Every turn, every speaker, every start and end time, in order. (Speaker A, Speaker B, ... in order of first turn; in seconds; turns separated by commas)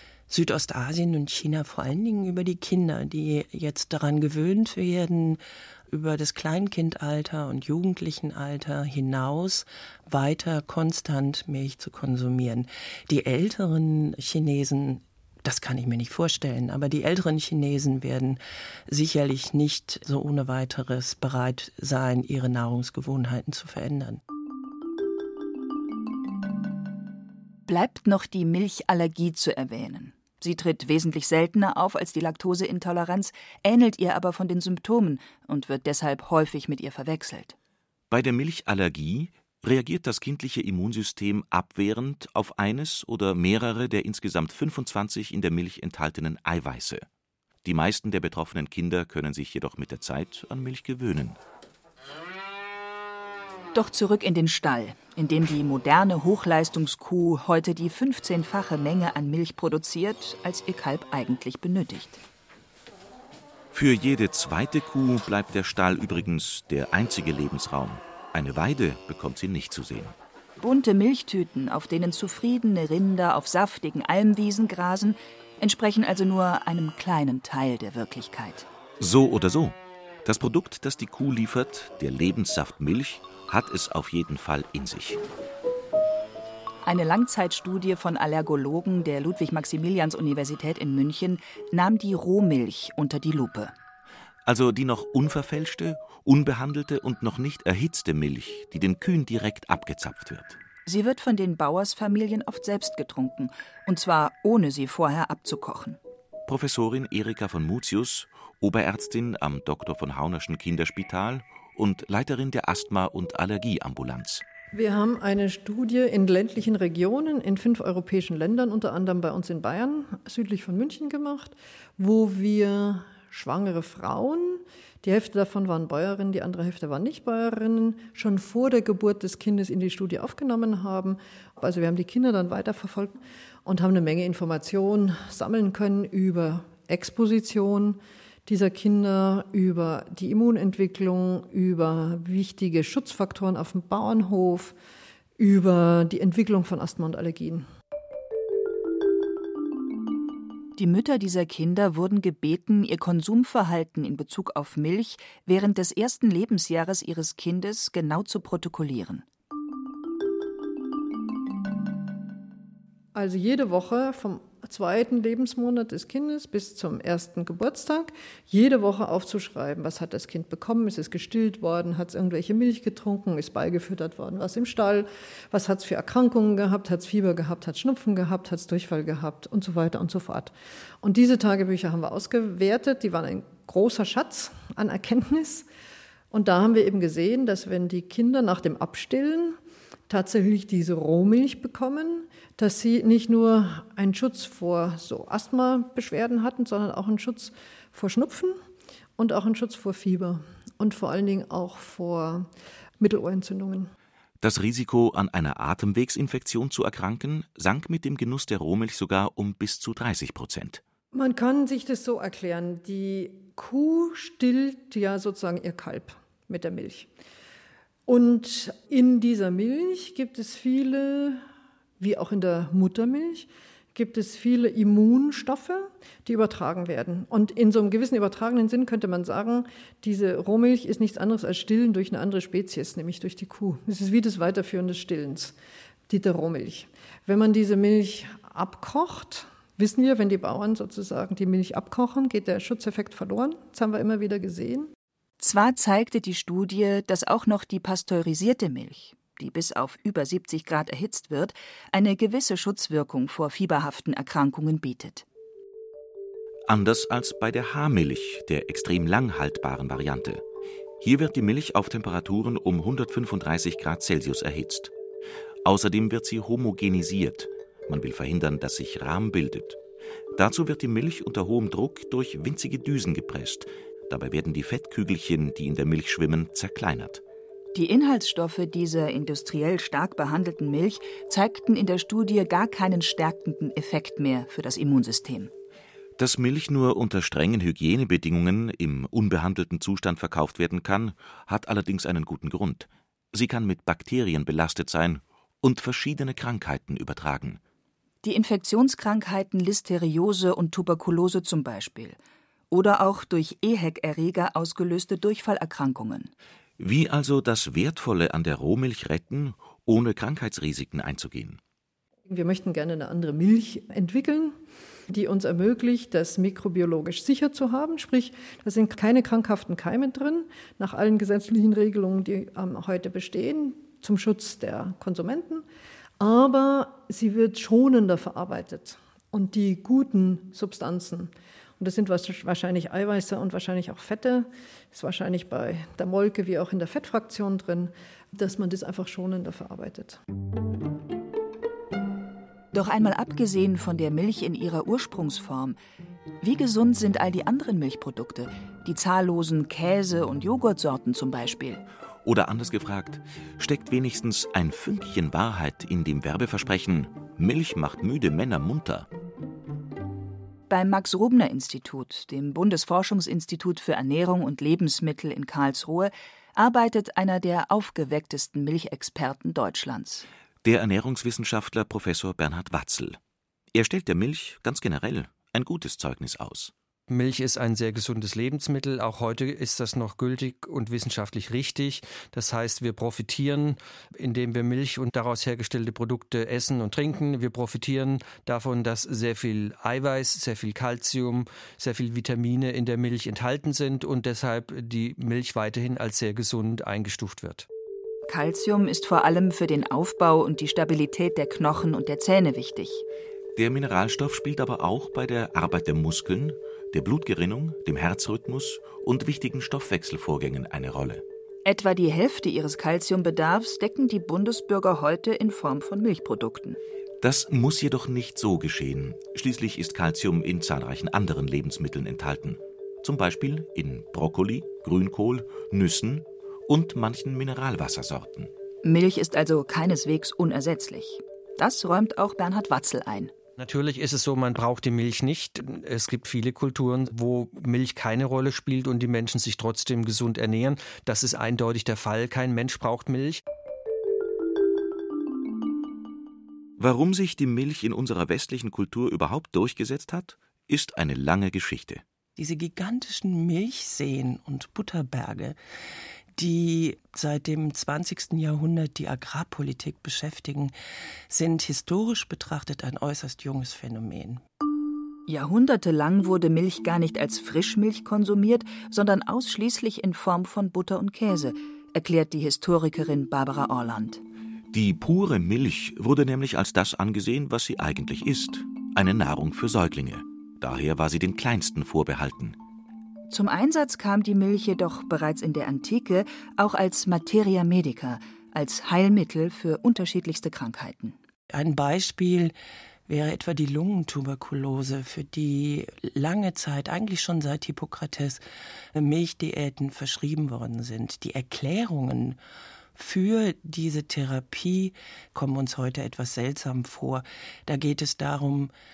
Speaker A: 0.3-24.2, Speaker B: 27.7-37.5, Speaker C: 38.1-47.0, Speaker C: 47.6-51.4, Speaker B: 53.7-62.2, Speaker C: 63.7-70.2, Speaker B: 70.6-78.7, Speaker C: 79.0-85.2, Speaker B: 86.8-93.7, Speaker C: 94.5-100.6, Speaker B: 100.8-106.0, Speaker C: 106.5-114.4, Speaker D: 114.7-144.7, Speaker D: 145.4-147.7, Speaker B: 150.8-159.2, Speaker D: 163.1-185.7, Speaker D: 186.3-189.6, Speaker D: 190.1-198.6, Speaker D: 199.2-202.5, Speaker D: 203.0-203.9, Speaker C: 204.4-210.8, Speaker D: 211.1-217.1, Speaker D: 218.1-221.4, Speaker D: 222.0-235.5, Speaker D: 236.1-244.9, Speaker B: 245.4-255.2, Speaker C: 256.7-260.4, Speaker C: 261.0-264.9, Speaker C: 265.6-269.8, Speaker C: 270.3-277.2, Speaker B: 277.7-285.5, Speaker C: 286.2-297.6, Speaker B: 298.2-302.2, Speaker B: 302.7-306.3, Speaker C: 306.8-311.6, Speaker D: 312.3-314.5, Speaker D: 315.1-325.6, Speaker D: 326.2-340.2, Speaker B: 342.7-345.8, Speaker B: 346.4-351.8, Speaker C: 352.2-359.1, Speaker B: 360.7-370.3, Speaker C: 370.6-373.2, Speaker C: 373.7-376.7, Speaker E: 377.1-397.6, Speaker B: 398.3-403.0, Speaker C: 403.6-411.2, Speaker B: 411.6-416.8, Speaker C: 417.2-428.5, Speaker B: 428.8-433.3, Speaker E: 433.6-443.4, Speaker C: 446.8-452.0, Speaker A: 452.4-455.6, Speaker A: 456.4-460.7, Speaker A: 461.3-464.4, Speaker B: 465.3-474.2, Speaker C: 474.7-482.6, Speaker B: 483.3-491.1, Speaker A: 491.5-492.5, Speaker A: 493.1-498.4, Speaker A: 498.9-502.4, Speaker A: 502.9-508.7